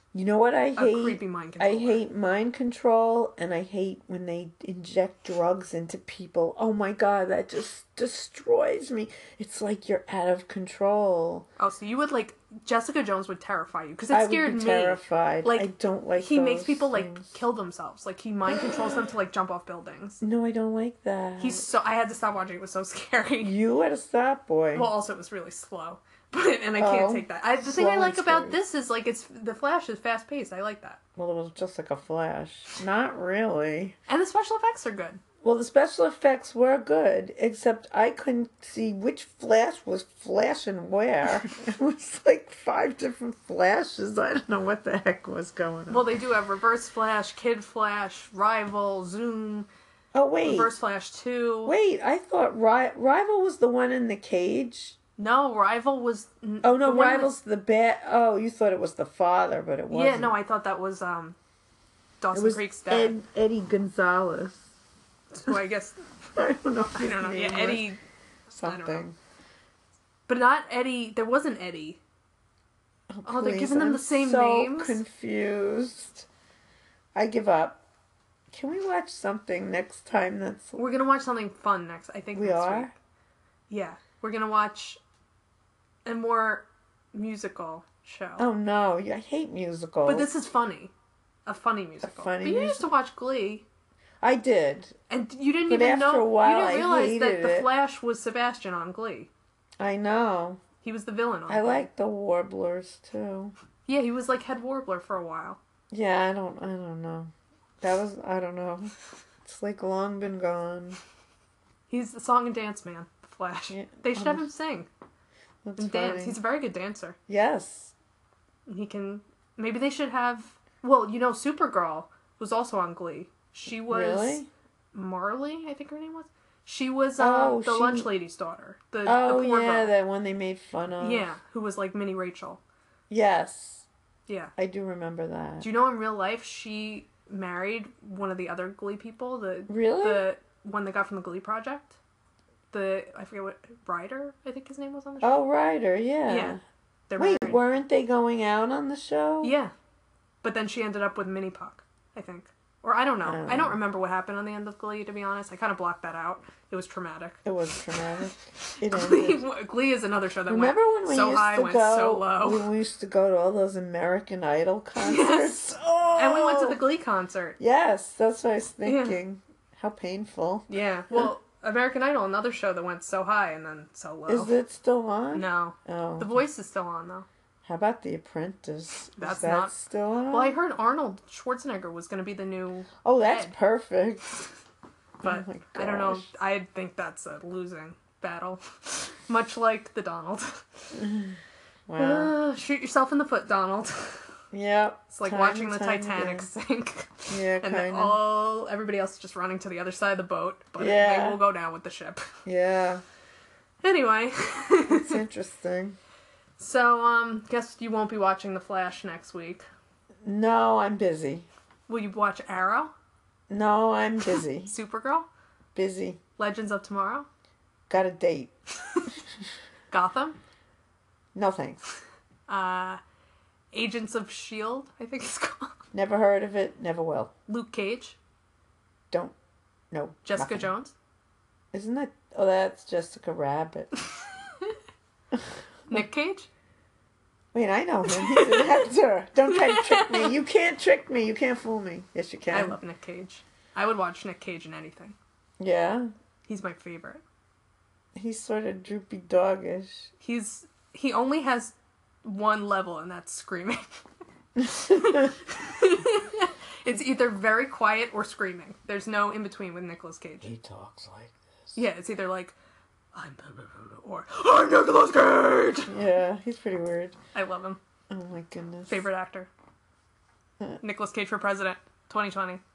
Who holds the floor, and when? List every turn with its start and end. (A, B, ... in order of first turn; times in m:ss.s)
0:00.1-0:11.5 A
0:00.8-0:02.0 B
0:11.6-0:20.2 B
0:14.1-0:17.4 A
0:18.5-0:19.0 A
0:20.2-0:21.6 A
0:21.4-0:23.5 B
0:23.4-0:24.9 A
0:24.7-0:31.0 B
0:26.8-0:28.6 A
0:31.2-0:34.0 A
0:34.1-0:35.2 B
0:35.4-0:46.1 A
0:45.9-0:49.7 B
0:50.1-0:50.7 A
0:50.4-0:51.8 B
0:51.6-0:55.0 A
0:55.2-0:57.3 B
0:56.6-1:00.3 A
0:59.9-1:01.4 B
1:02.2-1:03.2 B
1:02.3-1:04.7 A
1:05.3-1:06.0 B
1:06.4-1:07.9 A
1:07.0-1:08.0 B
1:08.5-1:09.2 A
1:08.6-1:09.1 B
1:10.3-1:12.0 B
1:13.1-1:16.3 A
1:13.3-1:15.0 B
1:17.2-1:17.8 A
1:18.5-1:20.8 A
1:20.8-1:22.9 B
1:22.4-1:22.9 A
1:23.7-1:25.0 B
1:26.1-1:28.5 B
1:28.4-1:30.3 A
1:30.0-1:30.9 B
1:31.5-1:33.7 B
1:32.0-1:32.9 A
1:34.2-1:35.0 A
1:35.1-1:39.3 B
1:35.7-1:37.7 A
1:39.8-1:40.6 A
1:40.8-1:41.9 B
1:41.5-1:43.5 A
1:43.9-1:45.6 B
1:45.9-1:51.0 A
1:51.9-1:54.9 B
1:53.7-1:54.5 A
1:55.6-1:56.4 A
1:55.8-1:57.2 B
1:57.3-1:57.9 A
1:58.7-2:09.9 B
2:03.9-2:04.5 A
2:07.2-2:08.1 A
2:09.0-2:11.3 A
2:11.0-2:12.6 B
2:13.1-2:13.9 A
2:14.3-2:14.5 B
2:14.6-2:15.7 A
2:15.6-2:22.0 B
2:19.7-2:20.3 A
2:22.7-2:25.4 B
2:25.2-2:26.6 A
2:26.3-2:27.6 B
2:27.2-2:29.6 A
2:29.4-2:29.7 B
2:30.4-2:37.4 B
2:33.2-2:33.8 A
2:37.4-2:39.4 A
2:38.0-2:42.7 B
2:40.5-2:46.8 A
2:45.0-2:45.6 B
2:46.2-2:47.6 B
2:47.6-2:51.3 A
2:48.8-2:49.2 B
2:50.7-2:54.6 B
2:54.3-2:56.4 A
2:55.3-2:57.3 B
2:57.6-3:00.6 A
2:59.2-2:59.8 B
3:00.3-3:03.5 B
3:03.0-3:04.4 A
3:05.2-3:06.3 A
3:05.2-3:11.0 B
3:10.9-3:12.3 A
3:12.0-3:14.2 B
3:14.5-3:16.5 A
3:15.1-3:22.2 B
3:17.3-3:18.2 A
3:20.8-3:21.4 A
3:22.5-3:23.0 A
3:23.8-3:25.2 B
3:24.9-3:26.0 A
3:26.6-3:29.6 B
3:30.2-3:31.5 A
3:31.9-3:32.9 B
3:33.5-3:34.7 A
3:34.6-3:35.3 B
3:35.8-3:36.2 A
3:36.4-3:37.3 B
3:37.9-3:38.5 A
3:39.9-3:40.4 B
3:41.4-3:41.8 A
3:42.5-3:43.0 B
3:43.7-3:45.8 B
3:45.9-3:47.3 A
3:47.5-3:48.2 B
3:49.1-3:49.4 A
3:49.9-3:50.7 A
3:50.2-3:51.0 B
3:51.7-3:53.9 A
3:54.1-3:54.8 B
3:55.3-3:56.0 A
3:55.9-3:56.5 B
3:57.5-4:02.8 A
3:58.1-3:58.8 B
3:59.5-4:00.4 B
4:02.5-4:05.2 B
4:05.6-4:06.1 A
4:06.5-4:07.2 B
4:08.2-4:10.1 A
4:10.2-4:13.8 B
4:14.6-4:15.3 A
4:14.7-4:20.5 B
4:20.4-4:21.8 A
4:21.8-4:22.6 B
4:23.1-4:25.9 B
4:25.9-4:27.2 A
4:27.4-4:27.8 B
4:28.1-4:29.0 A
4:28.9-4:29.5 B
4:30.8-4:32.6 B